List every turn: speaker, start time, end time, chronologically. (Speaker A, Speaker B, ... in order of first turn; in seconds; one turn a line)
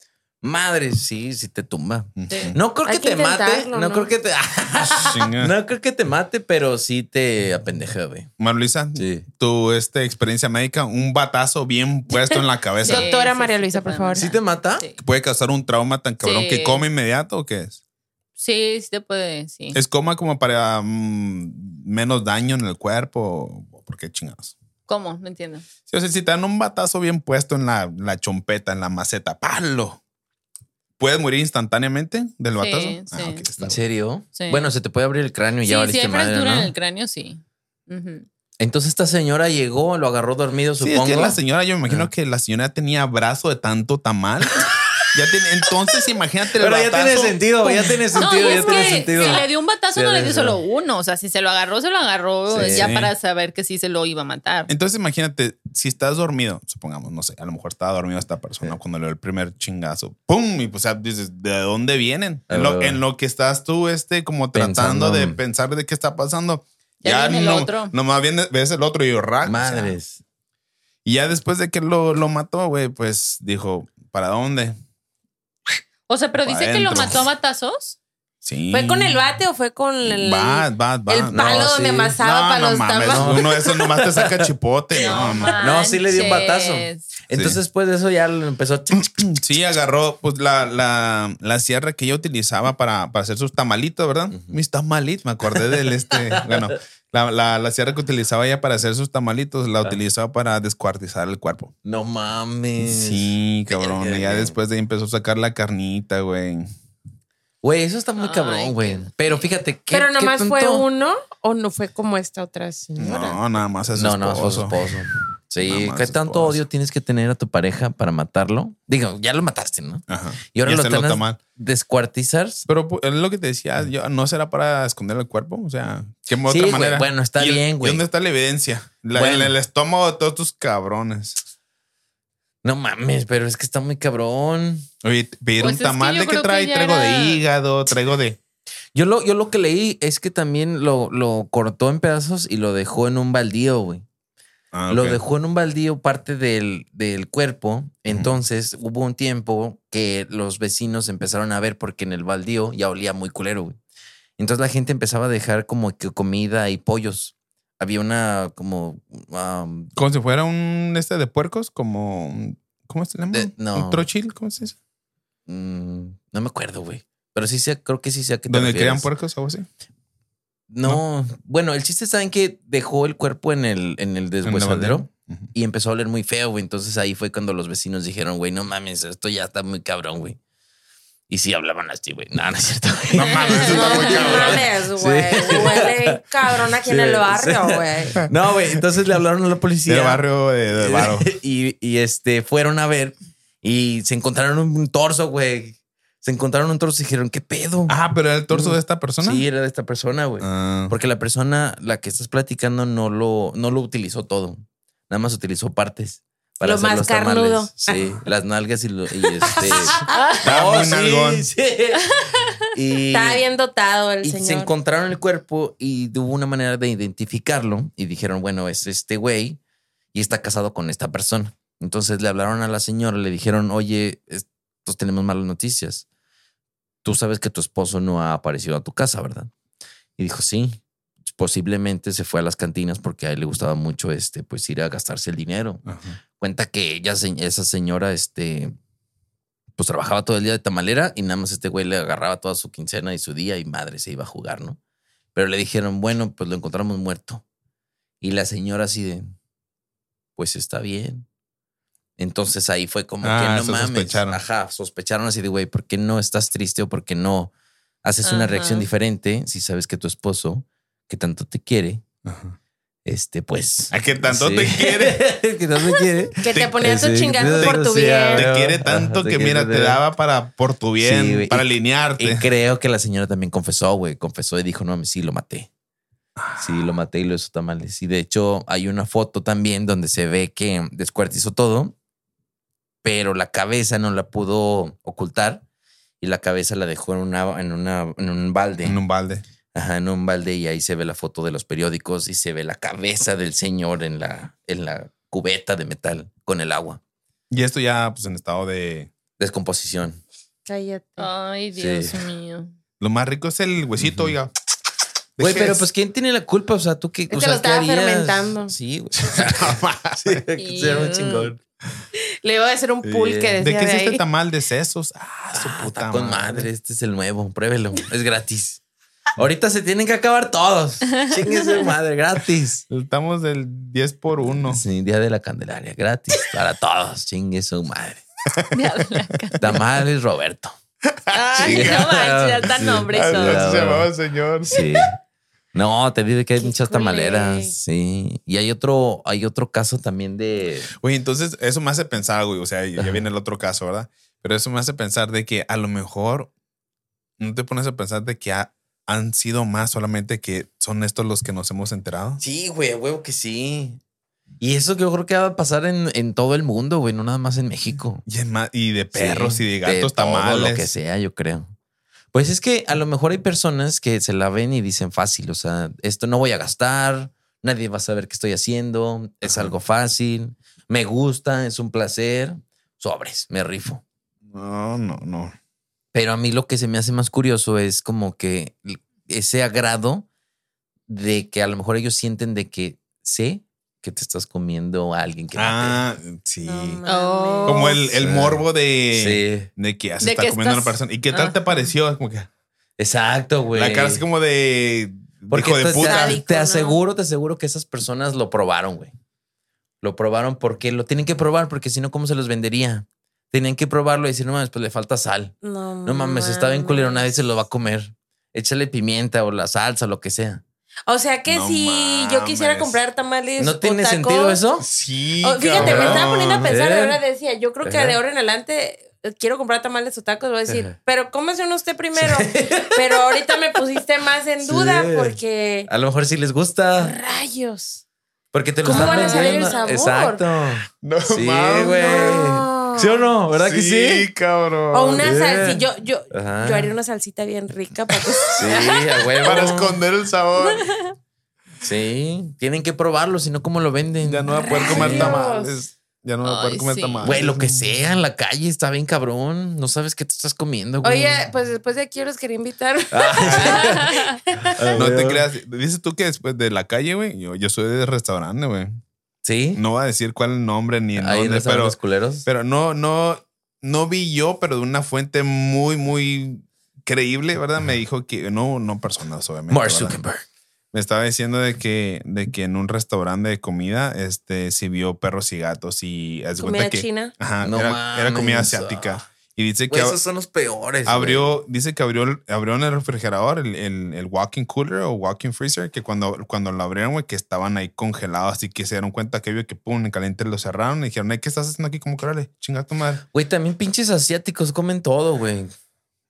Speaker A: 0.4-8.3
Speaker B: 2.1-2.6
Speaker C: 2.9-4.1
Speaker B: 4.9-5.5
Speaker B: 8.4-13.1
Speaker A: 8.9-9.3
Speaker D: 12.8-15.0
Speaker C: 12.8-14.4
Speaker A: 14.1-14.8
Speaker B: 15.0-17.8
Speaker D: 16.2-16.8
Speaker D: 18.4-19.8
Speaker B: 19.7-24.6
Speaker D: 24.9-25.6
Speaker B: 25.9-30.0
Speaker B: 31.0-33.8
Speaker D: 32.6-33.4
Speaker A: 33.6-36.7
Speaker D: 34.4-34.7
Speaker D: 35.6-38.3
Speaker A: 38.6-42.1
Speaker B: 40.8-48.0
Speaker A: 46.6-50.6
Speaker D: 48.1-54.7
Speaker C: 48.5-48.9
Speaker A: 52.5-53.0
Speaker B: 52.6-53.1
Speaker B: 54.7-70.0
Speaker A: 62.5-63.0
Speaker A: 64.5-65.4
Speaker D: 67.0-67.9
Speaker A: 69.4-70.2
Speaker B: 71.0-74.8
Speaker D: 76.1-78.0
Speaker B: 76.4-77.2
Speaker B: 78.4-79.2
Speaker C: 78.7-83.6
Speaker B: 80.0-85.7
Speaker A: 81.3-82.2
Speaker A: 83.0-84.5
Speaker D: 85.0-87.0
Speaker C: 85.1-85.6
Speaker A: 85.6-89.1
Speaker B: 87.3-87.6
Speaker B: 88.9-101.7
Speaker A: 94.3-94.6
Speaker A: 96.1-96.7
Speaker A: 101.8-104.6
Speaker B: 102.8-106.7
Speaker A: 107.6-110.9
Speaker D: 108.2-109.5
Speaker C: 109.9-113.4
Speaker B: 113.0-114.8
Speaker A: 114.0-122.7
Speaker B: 115.6-116.6
Speaker B: 120.1-121.4
Speaker B: 122.7-131.4
Speaker A: 126.5-128.0
Speaker A: 129.1-129.6
Speaker A: 132.6-134.9
Speaker B: 135.0-138.4
Speaker D: 135.6-137.4
Speaker A: 138.9-144.1
Speaker B: 144.7-145.2
Speaker A: 144.9-153.8
Speaker B: 148.1-148.3
Speaker A: 154.4-159.9
Speaker B: 159.9-164.8
Speaker A: 163.3-164.1
Speaker A: 165.5-169.1
Speaker B: 168.5-169.7
Speaker A: 170.7-180.4
Speaker B: 174.4-175.5
Speaker A: 181.3-198.0
Speaker B: 183.1-184.7
Speaker C: 183.5-188.2
Speaker B: 189.9-191.3
Speaker B: 197.9-199.4
Speaker A: 198.5-213.4
Speaker B: 200.4-200.9
Speaker C: 206.6-208.2
Speaker C: 209.4-210.2
Speaker B: 210.4-211.5
Speaker C: 213.1-214.7
Speaker A: 214.2-219.6
Speaker A: 220.1-226.1
Speaker A: 227.0-229.5
Speaker A: 230.2-235.8
Speaker B: 235.9-236.2
Speaker A: 236.4-238.7
Speaker A: 239.8-244.8
Speaker A: 245.3-247.4
Speaker A: 248.2-249.3
Speaker A: 250.4-251.3
Speaker A: 252.2-257.5
Speaker B: 253.2-254.4
Speaker A: 258.0-262.0
Speaker D: 258.2-258.9
Speaker B: 262.2-262.6
Speaker A: 263.1-270.0
Speaker B: 263.9-265.2
Speaker C: 266.4-268.5
Speaker B: 266.5-272.5
Speaker A: 271.0-275.7
Speaker B: 276.4-276.9
Speaker A: 276.6-281.9
Speaker A: 283.0-285.6
Speaker A: 286.2-289.0
Speaker B: 288.9-289.4
Speaker A: 289.7-297.0
Speaker B: 297.5-299.1
Speaker A: 299.4-300.2
Speaker C: 300.7-301.3
Speaker D: 301.2-302.7
Speaker A: 301.8-302.1
Speaker B: 303.0-304.5
Speaker A: 304.0-304.3
Speaker B: 305.4-305.9
Speaker A: 305.4-311.6
Speaker C: 307.3-308.7
Speaker B: 309.2-310.4
Speaker D: 310.6-311.5
Speaker C: 312.2-314.2
Speaker A: 313.0-313.6
Speaker B: 313.6-316.7
Speaker A: 315.5-318.8
Speaker A: 319.4-322.9
Speaker D: 321.2-321.9
Speaker B: 322.9-324.8
Speaker A: 324.4-328.2
Speaker D: 328.7-329.8
Speaker A: 329.6-330.8
Speaker B: 331.1-332.1
Speaker C: 331.3-333.6
Speaker A: 331.6-334.1
Speaker B: 333.1-335.0
Speaker A: 334.6-335.1
Speaker A: 335.7-340.9
Speaker C: 336.6-337.8
Speaker B: 340.9-346.5
Speaker A: 343.0-343.2
Speaker B: 347.4-352.4
Speaker A: 352.4-354.0
Speaker A: 354.6-358.2
Speaker B: 358.2-360.9
Speaker A: 359.1-361.7
Speaker A: 362.3-374.0
Speaker B: 369.4-369.7
Speaker B: 374.5-375.5
Speaker A: 376.1-380.3
Speaker A: 381.1-386.0
Speaker B: 385.6-387.0
Speaker C: 386.6-388.0
Speaker D: 387.1-388.0
Speaker B: 387.6-392.5
Speaker A: 388.1-389.7
Speaker D: 390.2-391.6
Speaker A: 393.0-394.2
Speaker B: 393.7-396.4
Speaker A: 395.5-399.1
Speaker C: 396.0-397.0
Speaker A: 400.0-410.6
Speaker C: 405.6-407.2
Speaker C: 411.1-414.6
Speaker B: 411.5-413.0
Speaker A: 413.6-414.9
Speaker B: 414.8-416.7
Speaker C: 415.4-425.9
Speaker A: 415.7-417.2
Speaker A: 417.8-418.2
Speaker A: 420.7-420.9
Speaker A: 422.1-423.4
Speaker A: 424.6-427.1
Speaker C: 427.0-428.0
Speaker A: 428.5-434.3
Speaker C: 428.8-430.4
Speaker B: 428.9-429.2
Speaker D: 429.0-429.7
Speaker B: 431.0-432.4
Speaker C: 431.9-433.3
Speaker B: 433.5-435.3
Speaker C: 434.9-439.2
Speaker A: 435.2-436.9
Speaker B: 438.2-438.6
Speaker A: 438.6-440.0
Speaker B: 439.4-440.9
Speaker A: 441.8-445.4
Speaker B: 444.2-447.9
Speaker C: 444.5-445.7
Speaker D: 446.4-447.3
Speaker A: 447.2-451.4
Speaker C: 451.0-454.7
Speaker A: 453.1-454.1
Speaker B: 453.4-454.0
Speaker A: 454.6-455.4
Speaker B: 454.9-458.9
Speaker A: 459.4-459.8
Speaker B: 459.7-470.2
Speaker A: 461.1-462.4
Speaker A: 469.7-470.4
Speaker B: 470.9-480.2
Speaker C: 476.6-477.3
Speaker A: 477.6-479.2
Speaker A: 479.9-481.6
Speaker B: 481.1-493.2
Speaker A: 493.3-495.7